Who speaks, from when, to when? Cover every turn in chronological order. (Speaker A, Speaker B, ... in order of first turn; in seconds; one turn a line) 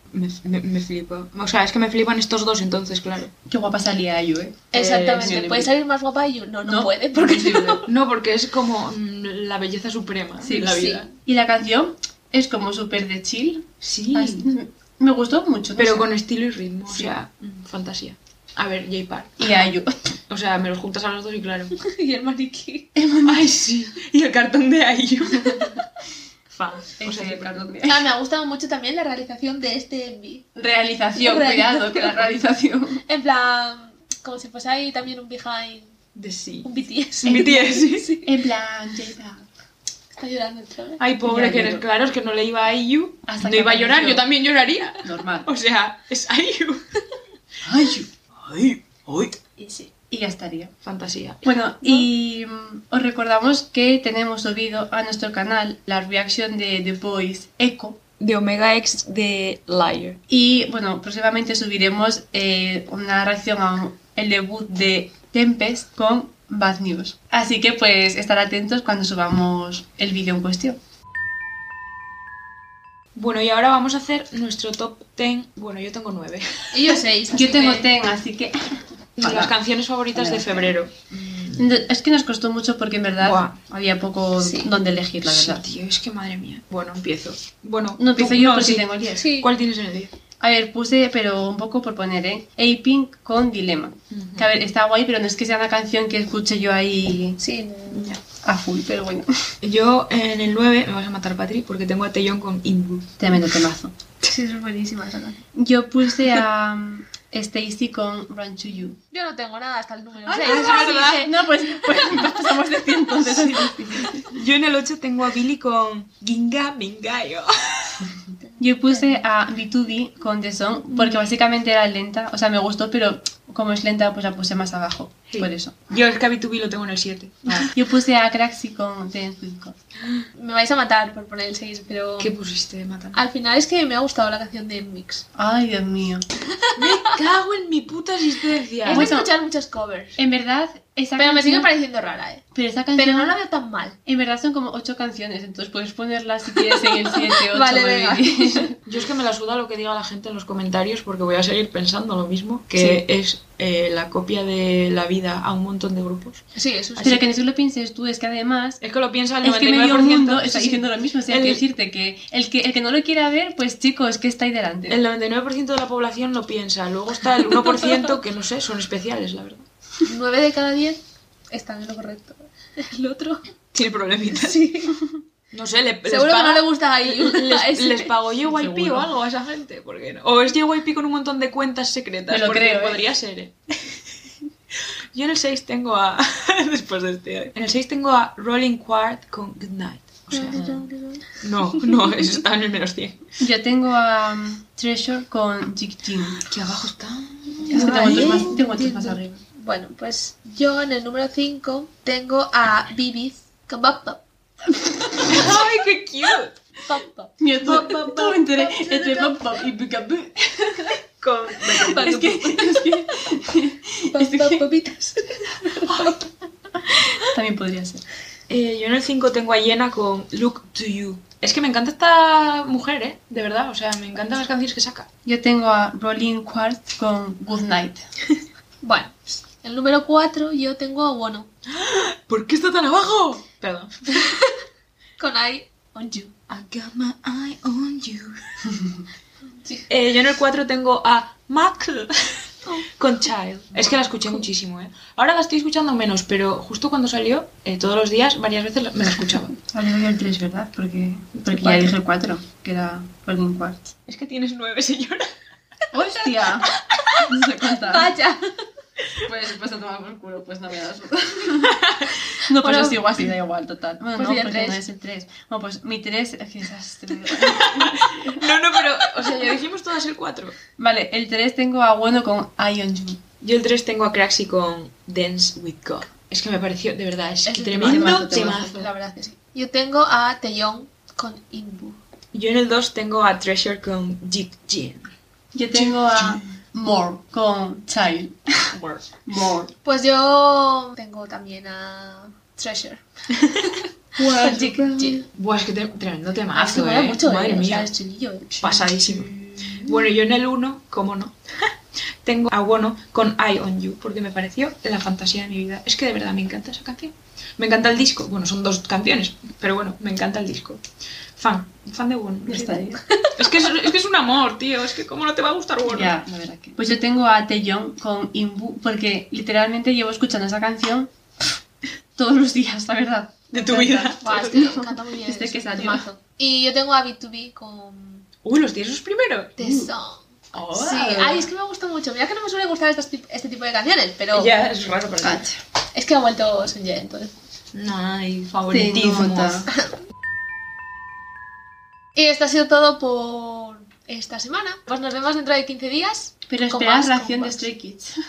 Speaker A: 0.1-3.3
Speaker B: 3.5-5.7
Speaker C: 4.7-7.9
Speaker A: 4.7-5.4
Speaker B: 6.7-7.8
Speaker A: 7.9-11.1
Speaker B: 10.4-16.1
Speaker A: 13.8-14.5
Speaker A: 15.8-19.5
Speaker B: 16.9-17.1
Speaker B: 19.4-20.1
Speaker A: 20.3-21.8
Speaker C: 21.8-22.9
Speaker B: 22.9-23.6
Speaker A: 23.2-25.8
Speaker A: 26.5-27.7
Speaker B: 27.0-28.1
Speaker C: 27.9-30.5
Speaker B: 30.6-33.0
Speaker C: 31.2-32.4
Speaker C: 33.1-36.0
Speaker A: 36.1-38.1
Speaker C: 36.6-38.4
Speaker B: 38.2-39.5
Speaker C: 40.1-41.0
Speaker A: 41.0-46.8
Speaker B: 41.2-41.9
Speaker B: 43.3-44.3
Speaker B: 45.0-45.5
Speaker B: 47.6-48.1
Speaker A: 47.8-49.4
Speaker C: 49.6-49.9
Speaker B: 50.1-50.7
Speaker A: 50.8-51.4
Speaker B: 51.4-58.0
Speaker A: 58.2-60.2
Speaker B: 60.3-70.8
Speaker A: 73.2-77.0
Speaker C: 76.7-77.9
Speaker B: 77.3-78.6
Speaker B: 79.2-79.6
Speaker A: 79.2-81.7
Speaker B: 80.1-80.8
Speaker B: 81.6-85.7
Speaker A: 83.2-83.6
Speaker C: 84.4-84.7
Speaker A: 85.2-88.9
Speaker B: 88.0-89.3
Speaker C: 89.2-89.5
Speaker A: 89.4-90.1
Speaker B: 90.4-97.4
Speaker A: 94.1-94.5
Speaker C: 97.4-98.2
Speaker A: 97.9-98.2
Speaker B: 98.4-99.3
Speaker A: 99.6-103.6
Speaker B: 103.2-103.9
Speaker C: 104.2-105.4
Speaker B: 105.5-109.0
Speaker C: 109.1-112.2
Speaker B: 110.3-114.3
Speaker A: 110.3-111.3
Speaker A: 113.2-118.1
Speaker C: 118.5-119.2
Speaker B: 118.6-125.8
Speaker A: 120.9-121.2
Speaker A: 125.3-127.7
Speaker B: 127.5-129.8
Speaker C: 130.4-132.4
Speaker A: 132.2-133.2
Speaker C: 133.1-135.2
Speaker B: 135.4-136.2
Speaker C: 136.5-137.2
Speaker A: 136.8-139.1
Speaker C: 138.8-140.2
Speaker B: 138.9-139.3
Speaker B: 140.2-141.7
Speaker C: 141.2-142.4
Speaker B: 142.5-143.4
Speaker C: 143.0-144.0
Speaker B: 144.1-148.7
Speaker C: 146.8-148.7
Speaker A: 148.9-156.4
Speaker B: 152.8-153.0
Speaker C: 156.6-157.3
Speaker B: 157.0-158.8
Speaker A: 158.8-161.6
Speaker B: 159.4-165.0
Speaker A: 164.9-169.7
Speaker C: 170.0-173.4
Speaker A: 173.7-174.6
Speaker C: 174.3-175.0
Speaker A: 175.5-184.0
Speaker C: 176.1-178.1
Speaker B: 178.5-179.1
Speaker B: 182.3-183.1
Speaker A: 185.1-190.9
Speaker C: 190.3-192.2
Speaker A: 191.4-193.2
Speaker B: 193.4-196.4
Speaker A: 196.4-198.6
Speaker C: 197.7-204.2
Speaker B: 197.7-199.4
Speaker A: 205.2-206.6
Speaker C: 206.9-207.8
Speaker B: 207.4-211.0
Speaker A: 207.6-208.4
Speaker C: 208.6-209.4
Speaker A: 211.2-212.4
Speaker B: 211.7-214.6
Speaker C: 211.8-212.9
Speaker C: 214.1-216.2
Speaker A: 215.9-216.2
Speaker B: 216.9-218.0
Speaker A: 218.5-225.1
Speaker B: 225.2-228.0
Speaker C: 228.8-231.5
Speaker A: 231.7-234.3
Speaker C: 234.1-234.5
Speaker C: 235.2-236.3
Speaker A: 236.5-238.4
Speaker A: 239.9-242.1
Speaker A: 243.0-249.6
Speaker B: 249.7-253.9
Speaker A: 251.5-251.9
Speaker A: 254.1-255.3
Speaker B: 255.9-256.7
Speaker B: 257.2-258.1
Speaker C: 257.9-258.6
Speaker B: 259.2-261.8
Speaker A: 261.7-262.1
Speaker B: 262.4-268.4
Speaker C: 262.6-263.0
Speaker C: 264.2-264.8
Speaker A: 267.3-270.6
Speaker B: 270.8-273.2
Speaker A: 273.4-278.9
Speaker C: 277.4-282.0
Speaker B: 277.8-278.6
Speaker A: 282.3-285.1
Speaker B: 285.5-288.6
Speaker A: 285.8-286.4
Speaker A: 288.7-289.1
Speaker B: 289.3-289.7
Speaker C: 289.8-293.0
Speaker A: 294.2-297.9
Speaker B: 294.2-294.8
Speaker C: 294.4-295.2
Speaker C: 296.5-299.2
Speaker A: 298.6-301.4
Speaker A: 302.2-310.8
Speaker A: 311.4-316.1
Speaker B: 312.5-313.0
Speaker B: 315.9-321.1
Speaker B: 322.2-326.0
Speaker A: 323.5-324.9
Speaker C: 324.2-328.3
Speaker A: 328.4-329.6
Speaker C: 329.6-334.5
Speaker B: 329.6-329.9
Speaker A: 330.5-331.5
Speaker A: 334.3-335.5
Speaker B: 335.2-335.6
Speaker C: 335.9-337.3
Speaker A: 337.7-339.7
Speaker B: 338.7-339.7
Speaker C: 342.1-347.7
Speaker B: 346.5-348.2